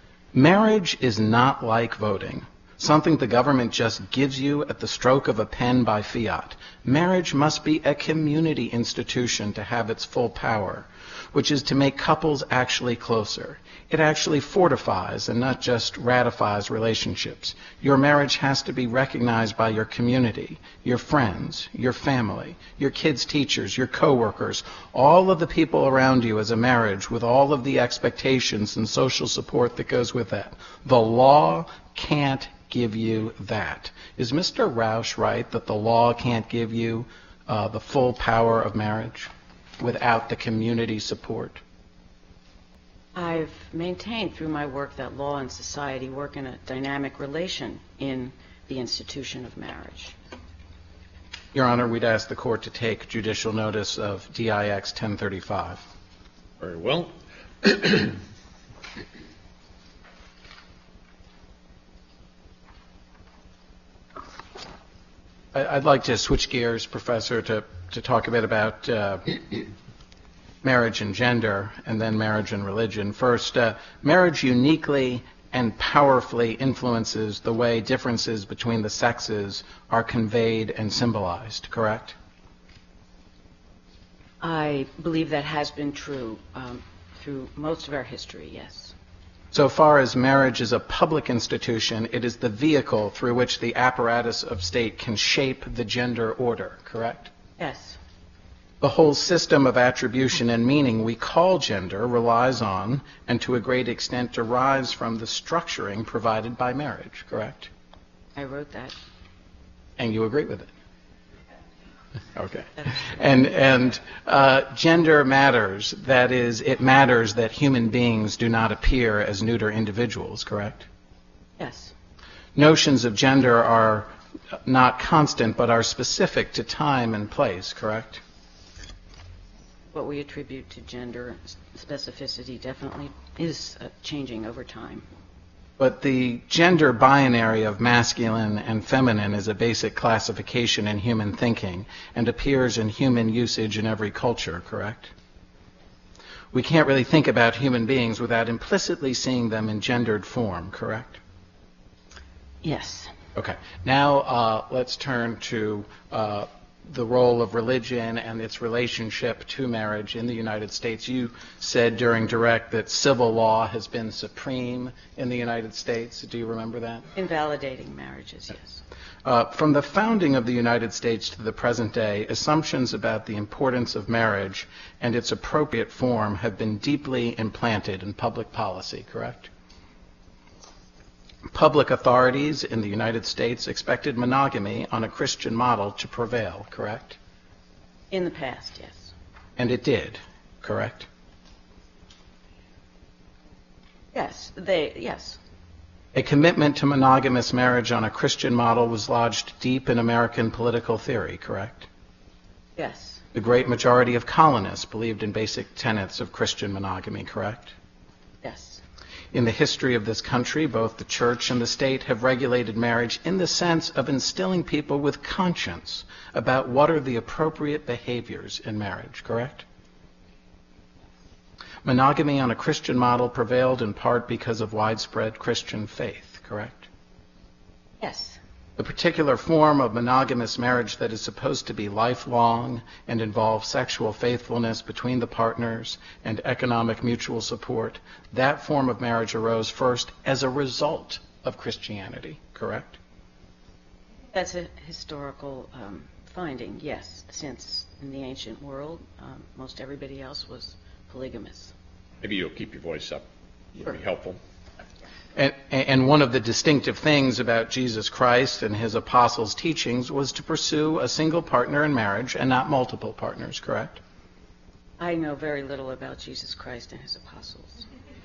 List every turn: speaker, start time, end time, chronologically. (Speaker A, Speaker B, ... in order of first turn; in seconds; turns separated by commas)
Speaker A: 0.3-41.6, Speaker B: 43.1-50.1, Speaker A: 51.5-55.8, Speaker C: 56.6-58.2, Speaker A: 65.5-69.7, Speaker A: 70.6-82.2, Speaker B: 84.4-88.9, Speaker A: 89.5-97.3, Speaker B: 97.6-98.0, Speaker A: 98.8-107.7, Speaker B: 108.3-109.0, Speaker A: 110.0-110.7, Speaker A: 112.3-120.9, Speaker B: 121.6-121.9, Speaker A: 122.5-124.1, Speaker A: 124.6-128.2, Speaker B: 129.9-135.1, Speaker A: 135.8-145.1, Speaker A: 146.5-151.2, Speaker B: 152.6-153.1, Speaker A: 153.3-167.1, Speaker B: 167.1-168.8, Speaker A: 169.2-179.5, Speaker A: 181.5-187.2, Speaker B: 188.1-189.1, Speaker A: 189.6-191.1, Speaker B: 194.1-195.4, Speaker A: 196.1-201.9, Speaker B: 202.8-203.2, Speaker A: 203.3-207.7, Speaker B: 208.4-208.8, Speaker A: 209.3-219.6, Speaker A: 221.8-226.9, Speaker B: 228.0-228.4, Speaker A: 228.8-243.0, Speaker B: 244.3-251.7, Speaker C: 252.2-254.4, Speaker A: 255.3-264.0, Speaker B: 265.0-267.8